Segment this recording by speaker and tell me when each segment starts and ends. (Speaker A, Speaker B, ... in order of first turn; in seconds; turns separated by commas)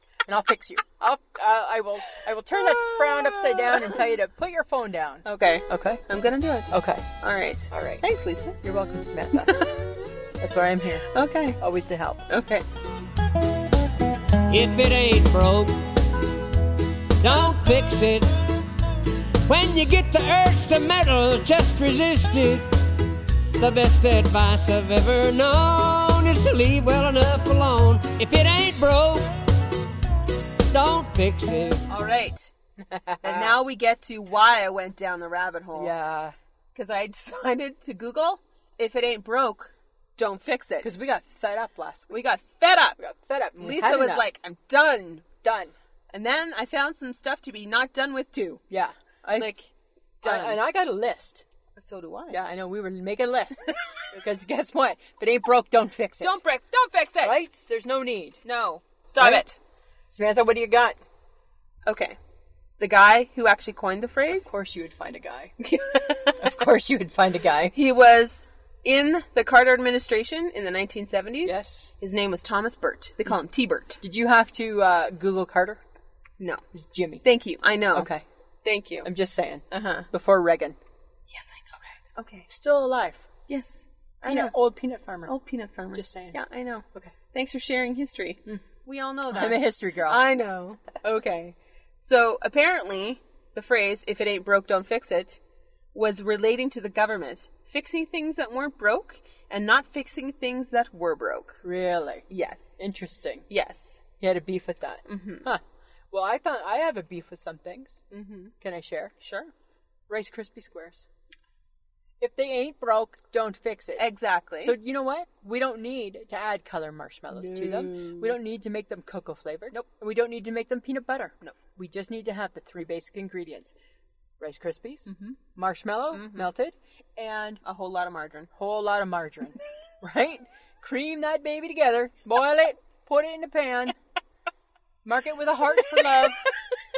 Speaker A: 0.3-6.0, Speaker B: 2.5-4.1, Speaker B: 5.2-8.6, Speaker A: 6.7-7.0, Speaker A: 7.7-8.0, Speaker A: 8.6-9.7, Speaker B: 9.4-9.8, Speaker A: 10.4-12.3, Speaker B: 11.1-11.6, Speaker B: 12.3-12.6, Speaker C: 14.5-15.7, Speaker C: 17.2-18.3, Speaker C: 19.5-22.6, Speaker C: 23.6-29.3, Speaker C: 30.7-31.8, Speaker B: 31.9-32.5, Speaker A: 32.9-33.6, Speaker B: 33.2-35.9, Speaker A: 35.7-36.3, Speaker B: 36.7-40.9, Speaker A: 40.8-42.2, Speaker B: 42.1-43.0, Speaker A: 43.0-44.3, Speaker B: 43.6-45.3, Speaker A: 45.4-45.7, Speaker B: 46.1-48.6, Speaker A: 48.7-49.5, Speaker B: 49.4-49.7, Speaker B: 50.2-50.6, Speaker A: 50.2-51.4, Speaker B: 51.8-52.4, Speaker A: 52.3-56.4, Speaker B: 56.2-57.4, Speaker A: 57.2-58.4, Speaker B: 58.4-59.6, Speaker A: 59.1-59.6, Speaker A: 60.1-61.0, Speaker B: 61.9-62.2, Speaker B: 62.8-64.5, Speaker A: 64.4-65.5, Speaker B: 65.6-66.5, Speaker A: 66.3-67.7, Speaker B: 67.7-74.0, Speaker A: 71.4-71.9, Speaker A: 74.0-75.8, Speaker A: 76.7-77.2, Speaker B: 77.2-78.1, Speaker A: 77.9-78.2, Speaker B: 78.6-79.1, Speaker A: 79.0-80.8, Speaker B: 79.7-80.1, Speaker B: 81.3-82.5, Speaker A: 82.5-83.3, Speaker B: 83.5-84.5, Speaker A: 84.2-85.3, Speaker B: 85.3-95.4, Speaker A: 85.9-86.4, Speaker A: 89.3-90.2, Speaker B: 95.9-101.6, Speaker A: 101.6-102.3, Speaker B: 102.3-102.8, Speaker A: 102.8-103.5, Speaker B: 103.5-104.0, Speaker A: 104.2-108.0, Speaker B: 105.0-105.5, Speaker B: 108.1-108.5, Speaker A: 108.6-109.1, Speaker B: 109.2-109.5, Speaker A: 110.1-111.1, Speaker A: 112.2-114.0, Speaker B: 114.0-114.8, Speaker A: 114.6-123.7, Speaker B: 117.3-118.4, Speaker A: 124.4-127.6, Speaker B: 125.1-125.4, Speaker B: 126.1-126.5, Speaker B: 127.6-128.5, Speaker A: 128.5-133.9, Speaker A: 135.0-136.4, Speaker B: 135.8-136.8